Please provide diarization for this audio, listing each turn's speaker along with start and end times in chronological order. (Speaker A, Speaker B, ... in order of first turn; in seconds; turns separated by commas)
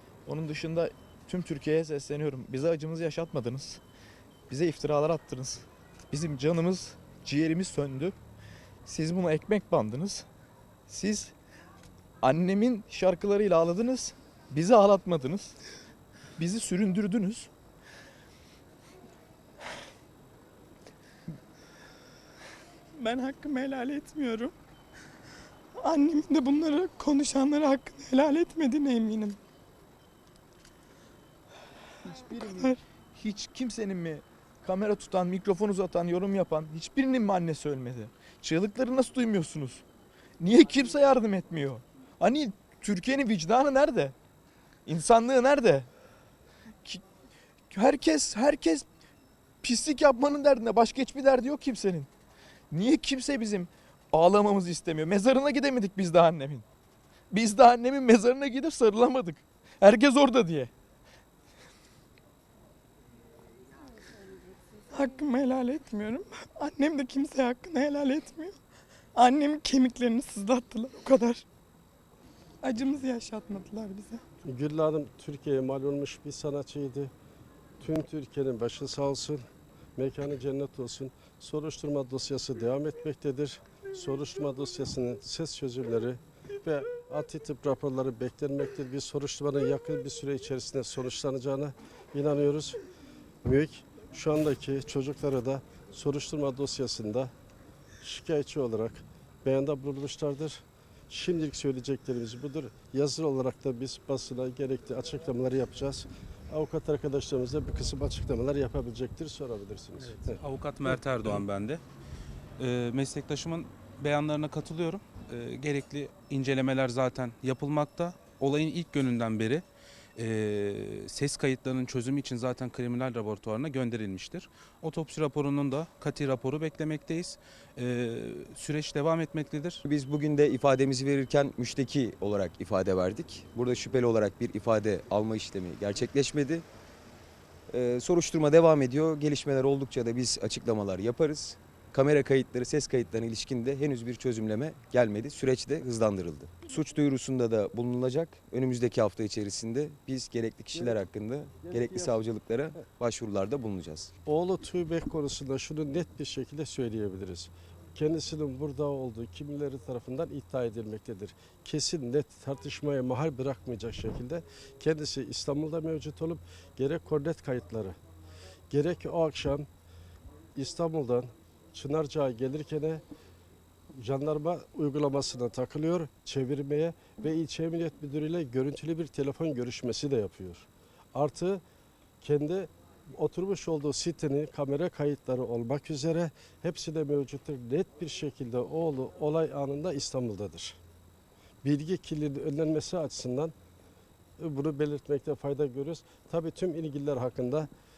Speaker A: 0.2-3.8, Speaker A: 4.5-8.1, Speaker A: 8.8-10.2, Speaker A: 10.9-11.3, Speaker A: 12.2-15.6, Speaker A: 16.4-17.5, Speaker B: 22.9-24.5, Speaker B: 25.8-29.4, Speaker A: 32.0-39.8, Speaker A: 40.4-44.1, Speaker A: 44.9-45.9, Speaker A: 47.7-48.9, Speaker A: 49.6-52.1, Speaker A: 52.7-56.6, Speaker A: 57.3-60.7, Speaker B: 64.9-68.5, Speaker B: 69.1-71.4, Speaker B: 72.6-74.2, Speaker C: 74.4-77.1, Speaker C: 77.8-79.4, Speaker C: 80.0-92.8, Speaker C: 93.4-97.3, Speaker C: 98.0-110.4, Speaker D: 110.1-111.8, Speaker D: 112.6-119.6, Speaker D: 120.2-129.8, Speaker E: 129.8-136.6, Speaker E: 137.7-154.1, Speaker C: 150.7-151.0, Speaker C: 151.6-152.2, Speaker C: 154.2-167.9, Speaker C: 168.7-169.7, Speaker C: 170.6-173.0, Speaker C: 174.0-181.6, Speaker C: 182.2-190.8, Speaker C: 191.6-193.5, Speaker C: 194.4-197.7